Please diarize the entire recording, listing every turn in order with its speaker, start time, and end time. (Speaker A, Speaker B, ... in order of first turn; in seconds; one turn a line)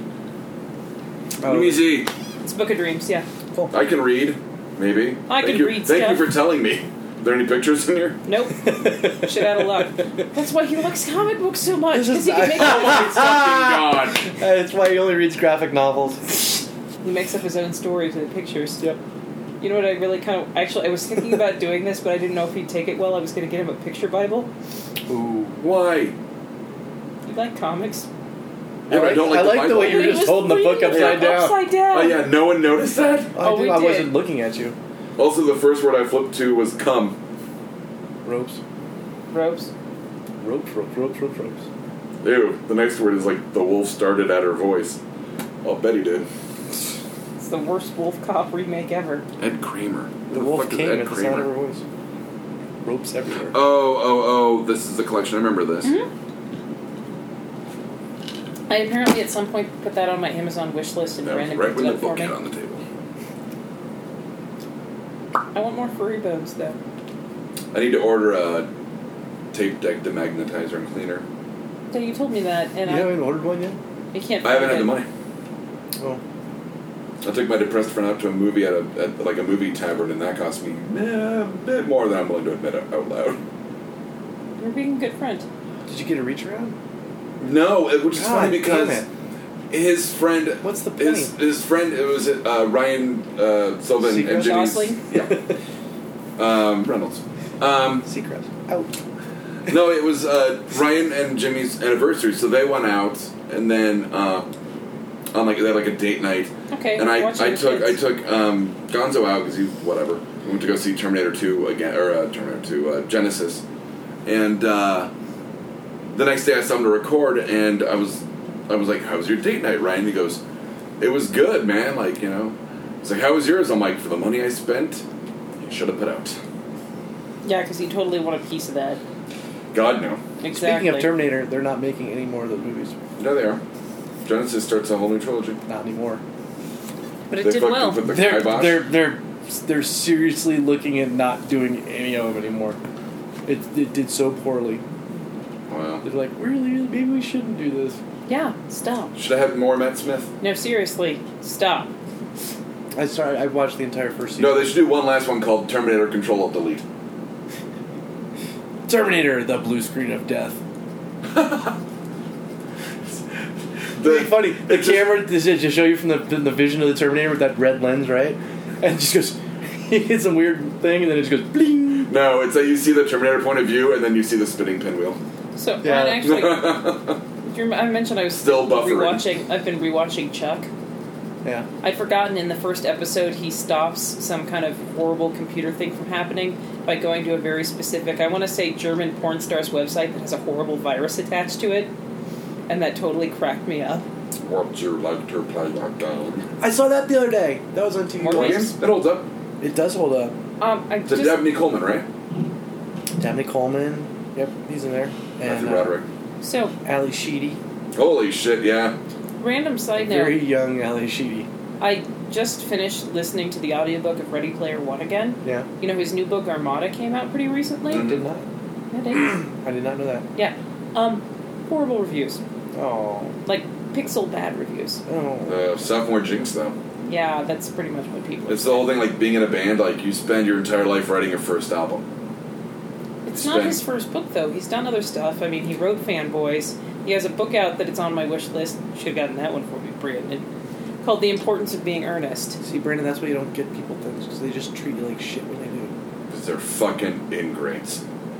Speaker A: 1.4-1.9
Speaker B: 1.4-2.1
Speaker C: 2.4-3.3
Speaker B: 3.7-8.2
Speaker C: 5.3-6.3
Speaker C: 8.2-13.3
Speaker A: 8.6-9.9
Speaker A: 11.9-16.3
Speaker B: 12.6-14.2
Speaker C: 17.0-18.8
Speaker C: 19.6-24.5
Speaker A: 25.1-25.6
Speaker B: 25.6-26.1
Speaker C: 27.3-28.1
Speaker A: 28.9-31.6
Speaker B: 28.9-30.2
Speaker C: 29.6-32.2
Speaker B: 30.9-31.4
Speaker B: 31.9-33.3
Speaker A: 33.3-34.8
Speaker C: 33.4-34.2
Speaker B: 35.2-37.2
Speaker A: 38.2-38.6
Speaker C: 39.3-39.7
Speaker A: 40.4-41.6
Speaker B: 42.2-45.0
Speaker B: 45.6-46.3
Speaker C: 47.4-49.2
Speaker B: 49.4-51.5
Speaker A: 50.3-51.8
Speaker A: 52.8-53.6
Speaker B: 53.5-55.9
Speaker C: 55.8-56.1
Speaker C: 58.7-62.3
Speaker B: 61.2-62.8
Speaker C: 65.5-66.8
Speaker B: 67.7-68.7
Speaker B: 69.5-71.2
Speaker C: 71.9-73.1
Speaker A: 72.8-73.8
Speaker C: 74.1-75.0
Speaker B: 74.4-75.1
Speaker B: 77.2-83.4
Speaker C: 84.6-85.5
Speaker A: 85.9-86.8
Speaker B: 87.4-89.0
Speaker A: 88.2-89.0
Speaker B: 89.7-95.4
Speaker A: 90.6-91.3
Speaker A: 94.0-95.5
Speaker C: 94.2-95.0
Speaker B: 96.4-98.0
Speaker A: 98.0-99.0
Speaker B: 99.7-104.5
Speaker B: 105.3-113.6
Speaker C: 106.7-108.0
Speaker B: 114.2-115.1
Speaker B: 116.1-120.4
Speaker B: 121.0-125.0
Speaker B: 125.6-126.4
Speaker C: 127.4-129.0
Speaker B: 129.7-130.2
Speaker C: 130.4-131.1
Speaker A: 130.5-133.0
Speaker B: 133.2-133.6
Speaker B: 134.2-135.6
Speaker A: 135.7-136.2
Speaker C: 137.3-138.0
Speaker B: 137.4-138.9
Speaker A: 138.0-142.8
Speaker A: 143.4-144.8
Speaker B: 145.7-146.0
Speaker A: 146.0-148.0
Speaker C: 148.3-149.1
Speaker B: 149.2-150.3
Speaker C: 150.4-151.9
Speaker A: 152.9-154.7
Speaker B: 154.4-156.8
Speaker A: 158.9-160.6
Speaker B: 161.3-161.7
Speaker B: 163.9-165.1
Speaker A: 164.0-172.1
Speaker B: 172.1-175.2
Speaker C: 175.5-176.8
Speaker A: 175.8-176.3
Speaker B: 176.2-177.2
Speaker C: 177.4-180.7
Speaker B: 178.3-179.2
Speaker C: 181.8-191.9
Speaker C: 192.7-194.1
Speaker B: 194.4-196.5
Speaker A: 196.6-198.7
Speaker C: 198.2-198.7
Speaker B: 198.3-199.3
Speaker A: 199.6-200.3
Speaker C: 200.6-201.4
Speaker B: 201.1-202.1
Speaker A: 203.2-205.9
Speaker B: 205.4-206.1
Speaker C: 206.4-206.7
Speaker A: 206.8-207.6
Speaker B: 207.9-209.0
Speaker C: 209.4-210.4
Speaker A: 210.0-211.5
Speaker C: 211.8-218.1
Speaker A: 215.4-215.7
Speaker B: 217.9-218.2
Speaker A: 217.9-218.4
Speaker C: 218.9-219.4
Speaker A: 219.2-220.3
Speaker C: 220.3-222.4
Speaker A: 222.7-223.3
Speaker C: 223.4-225.0
Speaker A: 225.1-225.6
Speaker B: 225.4-226.8
Speaker C: 227.0-228.9
Speaker B: 228.5-232.0
Speaker C: 233.2-240.4
Speaker B: 233.3-233.8
Speaker C: 241.0-242.6
Speaker A: 242.6-245.9
Speaker B: 246.3-248.0